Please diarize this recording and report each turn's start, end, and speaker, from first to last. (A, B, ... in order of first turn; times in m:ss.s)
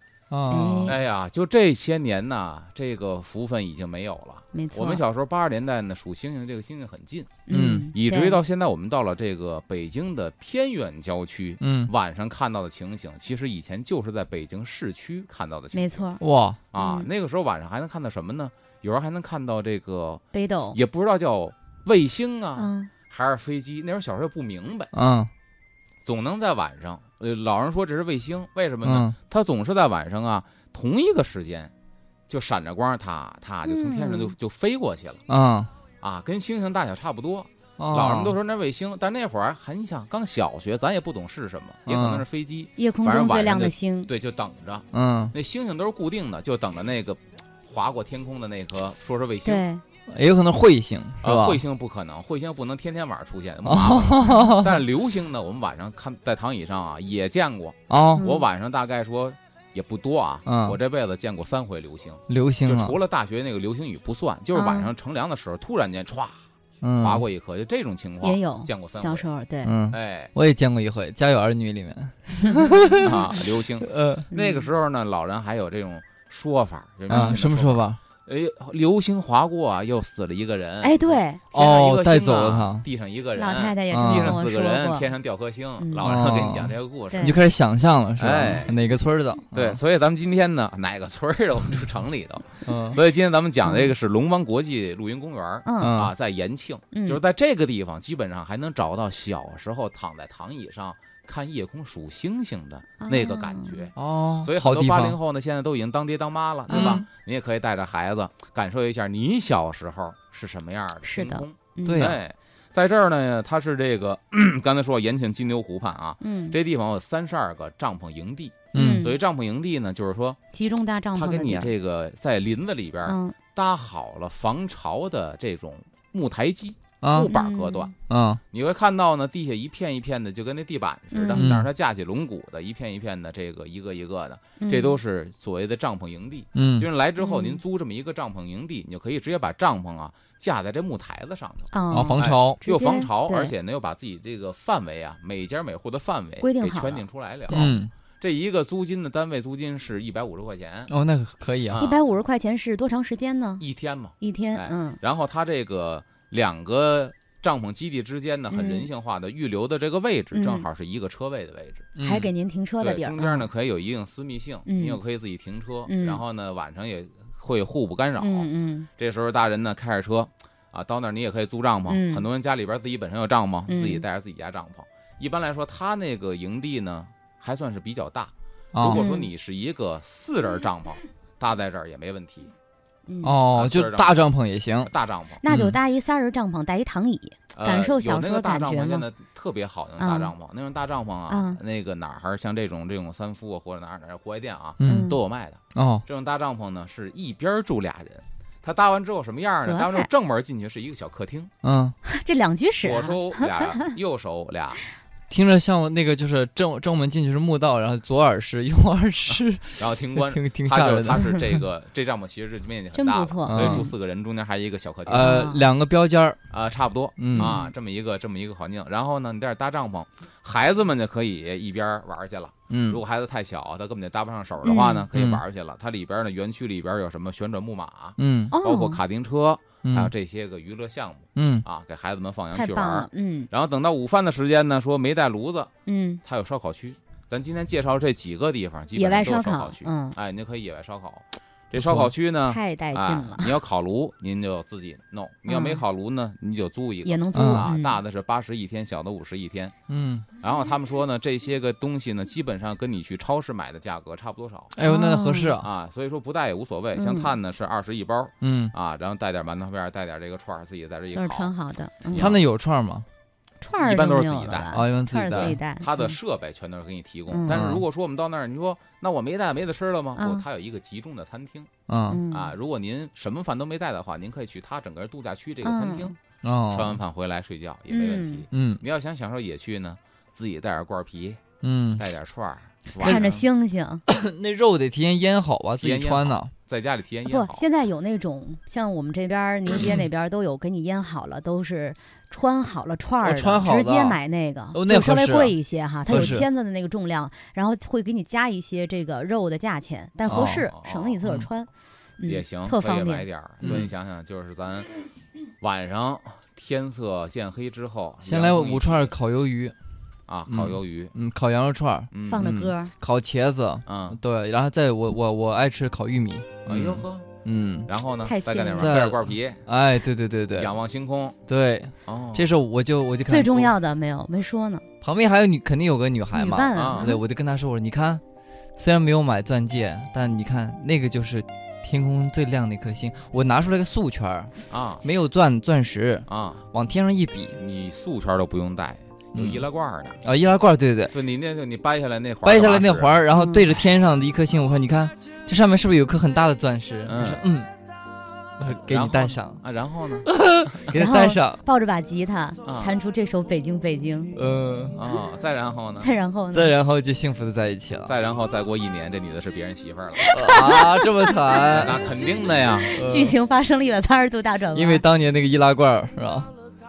0:00.3-0:01.0 A
0:00.5-0:01.0 B
0:00.9-0:16.2 C
0:04.5-0:05.0 B
0:07.5-0:08.4 B
0:07.5-0:07.9 A
0:11.6-0:11.9 A
0:15.7-0:16.2 B
0:16.2-0:16.6 A
0:16.7-0:24.9 C
0:16.8-0:17.1 B
0:20.3-0:20.8 B
0:22.6-0:22.9 B
0:24.9-0:25.3 A
0:26.0-0:31.7 C
0:28.8-0:29.1 A
0:32.3-0:35.2 C
0:33.6-0:34.3 B
0:35.3-0:35.7 A
0:36.0-0:49.7 C
0:37.8-0:38.3 A
0:41.9-0:42.2 A
0:42.8-0:44.1 B
0:44.9-0:45.3 A
0:49.4-0:49.8 B
0:50.1-0:51.6 A
0:51.2-1:06.4 C
0:53.6-0:54.8 A
0:57.9-0:58.2 A
0:58.2-0:58.4 B
1:00.4-1:00.8 A
1:02.3-1:03.0 A
1:04.5-1:04.9 B
1:06.8-1:07.2 A
1:07.0-1:09.3 C
1:08.2-1:09.7 B
1:09.6-1:14.3 A
1:09.9-1:10.3 C
1:12.4-1:13.0 B
1:13.0-1:27.4 C
1:14.3-1:14.7 B
1:17.1-1:18.0 A
1:20.8-1:21.4 B
1:21.5-1:22.9 A
1:23.4-1:25.1 B
1:23.9-1:24.4 A
1:25.8-1:26.1 B
1:26.0-1:29.8 A
1:27.1-1:27.4 B
1:28.2-1:28.7 C
1:29.5-2:00.4 C
1:32.6-1:33.0 A
1:33.6-1:33.9 B
1:35.6-1:36.0 B
1:35.8-1:36.1 A
1:36.9-1:37.2 B
1:43.0-1:43.8 B
1:44.0-1:45.2 A
1:46.7-1:47.0 B
1:46.7-1:47.0 A
1:51.0-1:52.1 B
1:51.9-1:52.2 A
1:56.2-1:56.6 B
1:58.7-1:59.1 A
1:58.7-1:59.1 B
2:00.5-2:01.7 B
2:01.1-2:07.9 C
2:03.0-2:03.4 B
2:07.0-2:07.3 A
2:07.3-2:07.9 B
2:08.1-2:08.4 A
2:08.5-2:30.9 C
2:11.1-2:11.5 B
2:11.4-2:11.7 A
2:14.6-2:15.0 B
2:16.6-2:16.9 A
2:17.2-2:17.6 B
2:21.7-2:23.5 B
2:21.9-2:22.6 A
2:26.4-2:27.7 B
2:27.5-2:27.9 A
2:30.9-2:31.8 A
2:31.7-2:32.0 C
2:31.8-2:33.6 B
2:33.6-2:41.9 C
2:34.2-2:35.0 B
2:38.5-2:38.9 B
2:40.3-2:40.7 B
2:42.0-2:42.3 A
2:42.0-2:43.5 B
2:42.8-3:02.5 C
2:44.7-2:45.0 B
2:45.9-2:46.2 B
2:48.2-2:48.9 B
2:51.9-2:52.2 B
2:53.7-2:54.0 B
2:58.7-2:59.0 A
2:58.8-2:59.3 B
3:03.1-3:03.4 B
3:03.2-3:04.9 A
3:03.5-3:04.1 C
3:04.8-3:05.4 C
3:05.4-3:09.1 B
3:05.5-3:05.8 A
3:07.5-3:21.5 C
3:10.0-3:10.3 B
3:11.3-3:11.6 B
3:14.8-3:15.1 A
3:14.8-3:15.2 B
3:15.7-3:16.0 A
3:19.6-3:20.1 B
3:21.6-3:22.0 A
3:22.0-3:23.9 B
3:22.8-3:24.8 C
3:25.3-3:31.6 A
3:29.8-3:35.4 C
3:32.9-3:33.9 B
3:33.5-3:33.9 A
3:35.1-3:36.4 A
3:35.2-3:35.6 B
3:36.5-3:55.7 C
3:37.2-3:37.5 A
3:37.4-3:37.7 B
3:42.7-3:43.0 A
3:44.6-3:45.1 B
3:45.1-3:45.4 A
3:48.2-3:48.5 A
3:48.5-3:49.0 B
3:49.8-3:50.1 A
3:51.4-3:51.6 A
3:52.5-3:53.5 B
3:55.8-3:56.2 B
3:56.2-4:09.8 C
3:59.0-4:00.2 B
4:01.8-4:02.1 A
4:02.5-4:03.6 B
4:05.4-4:05.8 B
4:07.1-4:08.0 B
4:07.3-4:07.6 A
4:09.9-4:10.2 A
4:10.4-4:14.8 C
4:14.8-4:15.7 A
4:14.8-4:15.6 B
4:15.6-4:21.5 C
4:16.9-4:17.3 B
4:18.4-4:18.7 A
4:21.1-4:22.3 B
4:22.1-4:22.4 C
4:22.1-4:23.1 A
4:23.6-4:26.2 B
4:23.8-4:31.7 C
4:24.7-4:25.6 A
4:27.3-4:27.6 B
4:27.5-4:27.8 A
4:30.2-4:30.4 B
4:31.9-4:32.2 A
4:32.1-4:32.5 B
4:32.3-4:36.1 C
4:35.6-4:36.2 B
4:36.4-4:37.0 A
4:36.7-4:41.4 C
4:37.9-4:38.4 B
4:38.5-4:38.8 A
4:41.6-4:42.0 A
4:42.0-4:43.4 C
4:43.0-4:44.0 B
4:43.0-4:43.4 A
4:44.1-4:46.5 A
4:45.8-4:47.6 C
4:47.2-5:03.2 B
4:49.8-4:50.0 A
4:53.2-4:54.2 A
4:54.7-4:55.6 A
4:56.1-4:56.4 C
4:56.1-4:56.4 A
5:00.3-5:00.7 A
5:00.7-5:01.2 C
5:02.3-5:04.9 C
5:03.6-5:03.9 A
5:05.6-5:09.1 C
5:08.2-5:09.8 A
5:10.3-5:11.1 C
5:10.5-5:17.9 A
5:12.1-5:12.5 C
5:12.3-5:12.9 B
5:13.8-5:14.2 C
5:16.6-5:17.3 C
5:17.8-5:19.6 C
5:18.2-5:18.9 B
5:18.8-5:20.7 A
5:20.6-5:21.4 C
5:21.5-5:23.7 A
5:22.0-5:22.5 C
5:23.2-5:24.8 B
5:25.0-5:28.2 A
5:26.3-5:27.2 B
5:26.7-5:27.1 C
5:28.8-5:37.6 A
5:34.7-5:35.1 C
5:36.3-5:36.6 C
5:37.6-5:40.2 C
5:39.3-5:39.6 A
5:40.2-5:41.1 A
5:41.1-5:43.1 C
5:42.4-5:47.7 A
5:43.3-5:43.7 B
5:47.1-5:47.5 C
5:48.6-5:49.6 A
5:48.6-5:50.9 C
5:50.2-5:51.6 A
5:50.9-5:54.3 B
5:52.6-5:52.9 C
5:54.4-5:55.0 A
5:54.9-5:56.1 C
5:56.0-5:56.8 B
5:56.5-5:58.1 A
5:58.0-6:00.4 C
6:00.2-6:01.6 B
6:00.3-6:02.0 A
6:01.7-6:03.0 C
6:02.9-6:05.0 B
6:02.9-6:03.4 A
6:04.8-6:06.5 A